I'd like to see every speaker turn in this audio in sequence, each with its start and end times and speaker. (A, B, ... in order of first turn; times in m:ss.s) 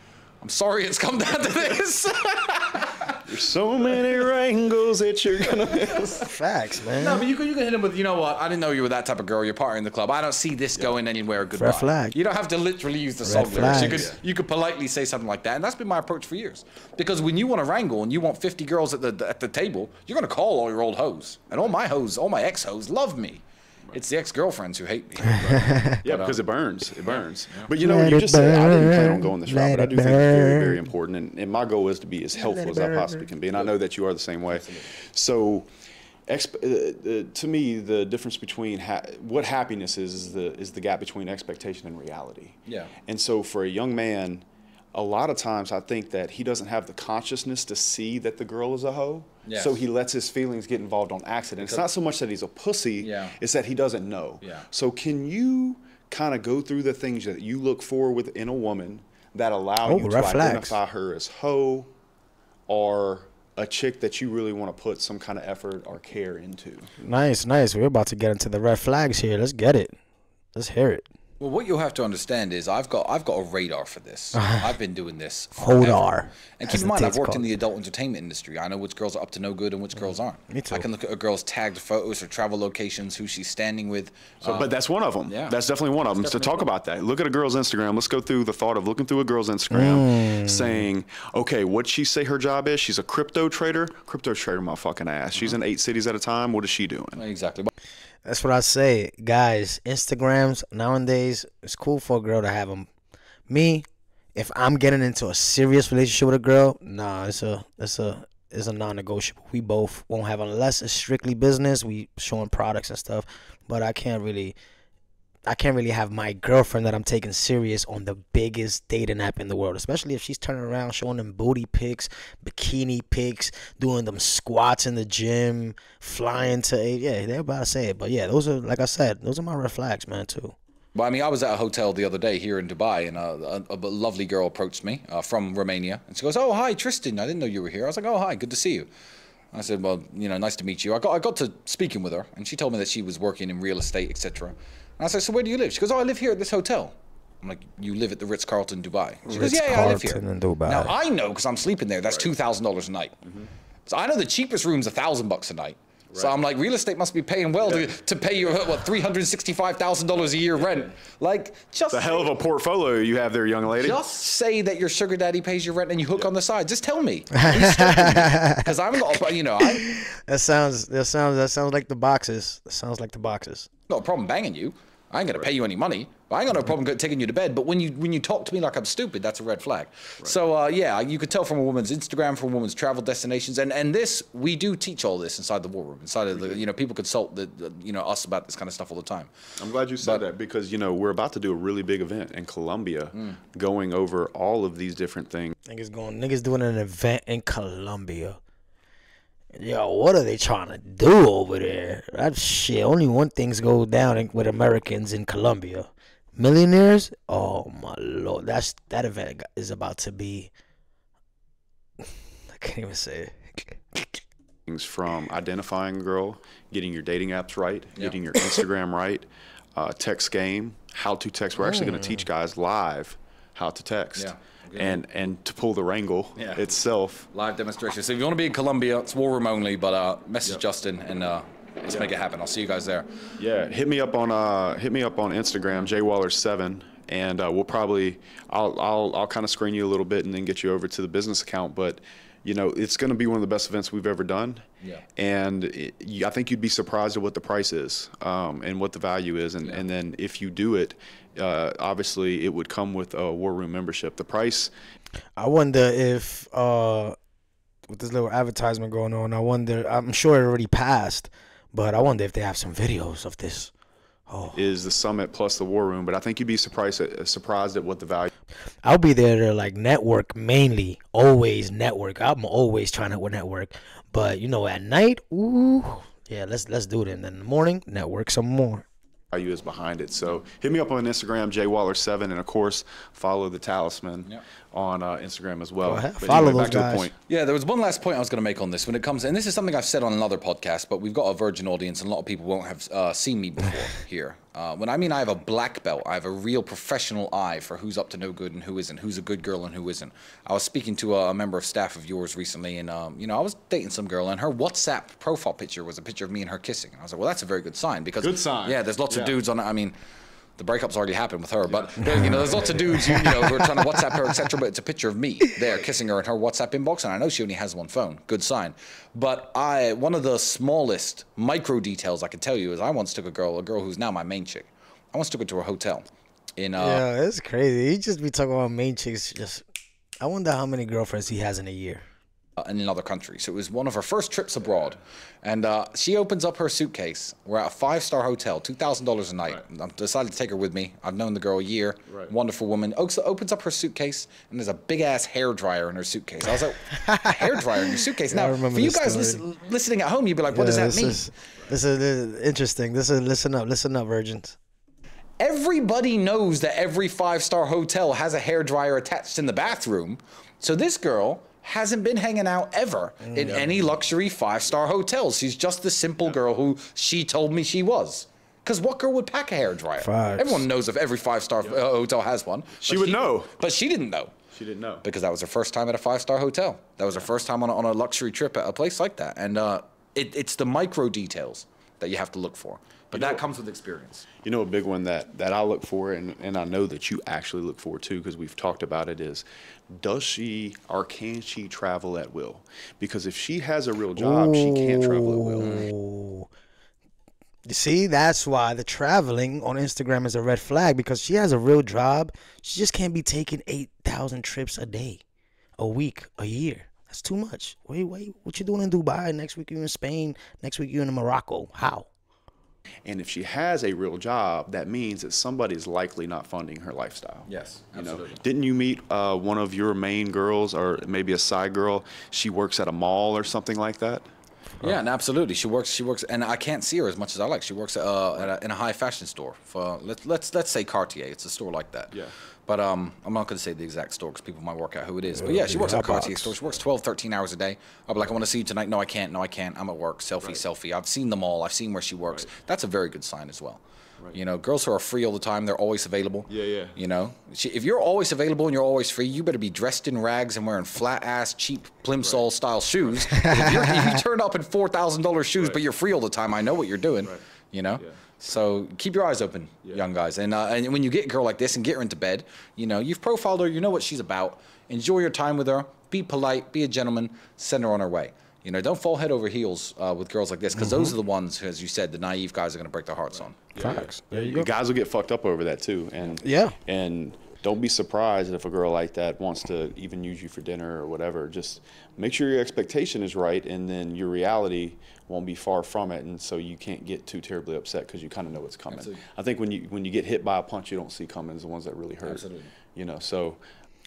0:00.4-0:03.3 A
0:03.2-0:06.3 B
0:05.5-0:06.2 A
0:06.2-0:07.2 C
0:06.9-0:26.4 A
0:11.6-0:12.2 C
0:13.2-0:14.1 C
0:13.5-0:14.2 B
0:25.3-0:26.0 C
0:26.0-0:35.7 B
0:27.0-0:27.7 A
0:27.8-0:30.8 C
0:32.4-0:33.3 C
0:34.5-0:34.9 A
0:36.3-1:01.9 B
0:42.7-0:42.9 A
0:49.4-0:49.8 A
0:53.0-0:53.4 A
0:54.4-0:54.7 A
0:59.8-1:00.8 C
1:02.7-1:06.9 B
1:07.0-1:10.0 C
1:10.5-1:11.0 C
1:11.4-1:16.0 A
1:14.4-1:14.6 C
1:15.6-1:17.4 C
1:16.6-1:24.7 A
1:20.5-1:20.8 C
1:24.4-1:37.2 B
1:25.3-1:25.6 A
1:26.2-1:26.6 A
1:29.7-1:30.8 C
1:37.2-1:37.7 A
1:38.2-1:42.9 C
1:43.5-1:54.5 C
1:55.4-2:10.6 C
2:10.9-2:18.9 A
2:19.5-2:33.1 A
2:29.2-2:30.9 C
2:32.1-2:32.3 B
2:33.8-2:42.3 A
2:37.6-2:38.5 B
2:40.6-2:40.9 B
2:41.9-2:44.0 B
2:43.8-2:49.9 A
2:47.3-2:48.7 C
2:49.6-2:53.7 C
2:53.9-3:09.3 A
3:06.4-3:06.6 B
3:09.6-3:15.5 B
3:15.7-3:18.4 C
3:19.5-3:30.5 C
3:32.5-3:34.1 C
3:34.6-3:47.3 B
3:41.6-3:42.2 C
3:44.2-3:45.0 A
3:46.4-3:46.7 A
3:47.3-3:53.3 A
3:51.9-3:52.1 B
3:53.4-4:04.6 B
4:05.2-4:14.7 B
4:15.4-4:17.2 C
4:17.9-4:23.7 C
4:24.3-4:24.6 C
4:24.5-4:28.3 B
4:28.8-4:38.8 C
4:39.3-4:47.1 B
4:45.8-4:47.1 C
4:47.3-5:09.9 A
5:08.2-5:09.4 B
5:10.6-5:27.0 A
5:11.6-5:13.0 B
5:12.1-5:12.4 C
5:13.0-5:13.7 C
5:26.8-5:29.6 C
5:30.2-5:32.0 C
5:32.6-5:51.2 A
5:34.7-5:35.0 B
5:42.1-5:42.3 B
5:46.9-5:49.4 C
5:50.5-5:54.6 C
5:55.4-6:14.3 A
6:03.2-6:03.6 C
6:03.4-6:03.9 B
6:10.0-6:10.6 C
6:12.8-6:13.6 B
6:14.5-6:15.0 B
6:15.0-6:24.2 A
6:23.1-6:23.4 B
6:24.4-6:35.9 B
6:34.2-6:36.5 C
6:37.7-6:45.2 C
6:45.8-6:52.1 C
6:53.0-7:04.2 B
6:57.5-6:58.4 A
7:04.8-7:23.8 A
7:15.4-7:16.5 C
7:24.3-7:54.0 A
7:26.5-7:27.0 B
7:32.2-7:32.4 B
7:33.4-7:34.2 C
7:50.8-7:51.1 C
7:53.7-8:13.6 B
7:53.8-7:54.7 C
7:56.4-7:56.8 C
8:08.9-8:09.2 A
8:12.2-8:12.7 A